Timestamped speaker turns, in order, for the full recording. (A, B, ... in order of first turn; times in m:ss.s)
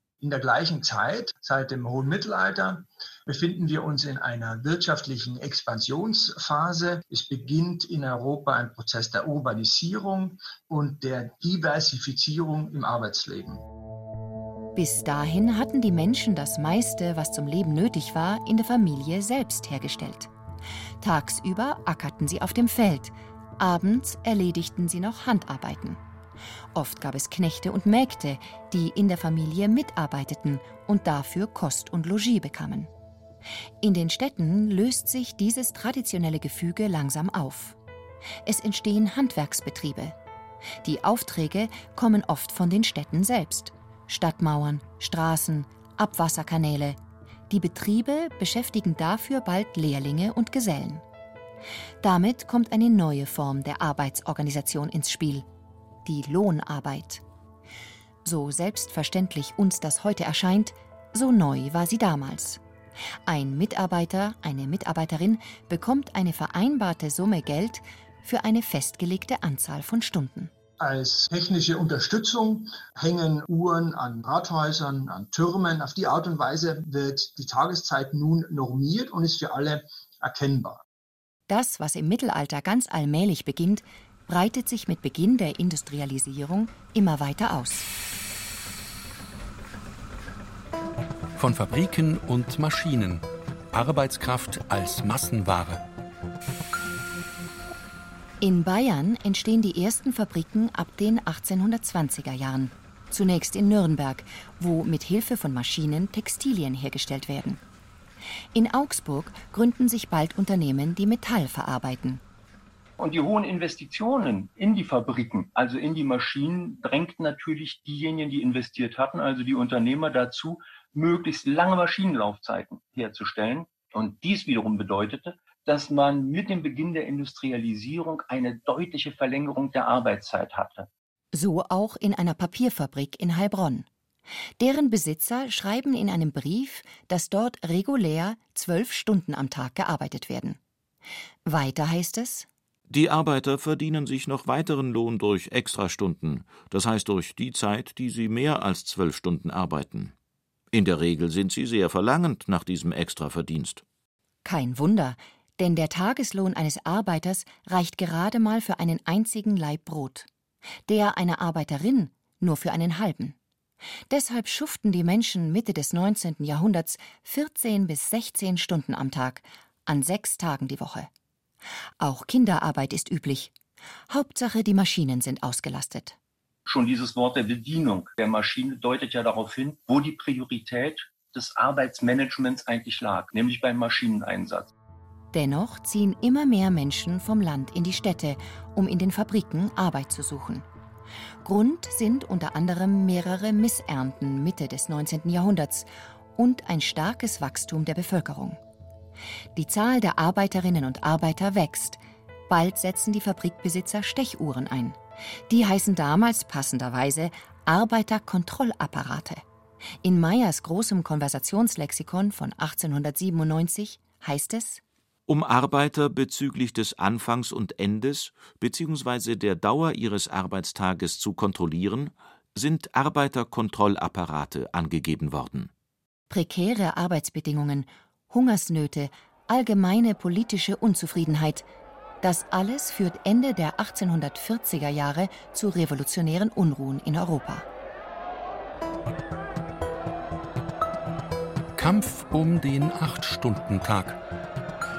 0:00.2-0:13.6 A
0:14.8-0:20.3 B
0:21.0-0:26.0 B
0:26.8-0:32.9 B
0:33.8-0:37.8 B
0:38.4-0:40.2 B
0:40.8-0:47.0 B
0:47.5-0:51.0 B
0:52.0-0:55.5 B
0:56.0-0:57.2 B
0:58.2-1:02.6 B
1:03.3-1:10.5 B
1:10.8-1:20.8 A
1:21.5-1:27.9 B
1:31.4-1:35.8 C
1:38.4-1:47.6 B
1:48.5-1:52.2 B
1:53.0-2:10.9 D
2:11.3-2:13.9 B
2:14.6-2:20.6 B
2:21.5-2:22.5 B
2:22.9-2:30.1 E
2:30.7-2:33.8 E
2:34.4-2:40.3 B
2:40.9-2:43.4 B
2:44.1-2:51.1 B
2:52.0-2:53.5 B
2:54.1-2:56.2 B
2:56.7-3:04.7 D
3:05.3-3:10.7 B
3:11.4-3:18.6 B
3:19.6-3:29.4 B
3:30.0-3:34.8 B
3:35.3-3:45.7 E
3:46.3-3:51.6 B
3:52.2-3:57.7 B
4:01.8-4:04.2 C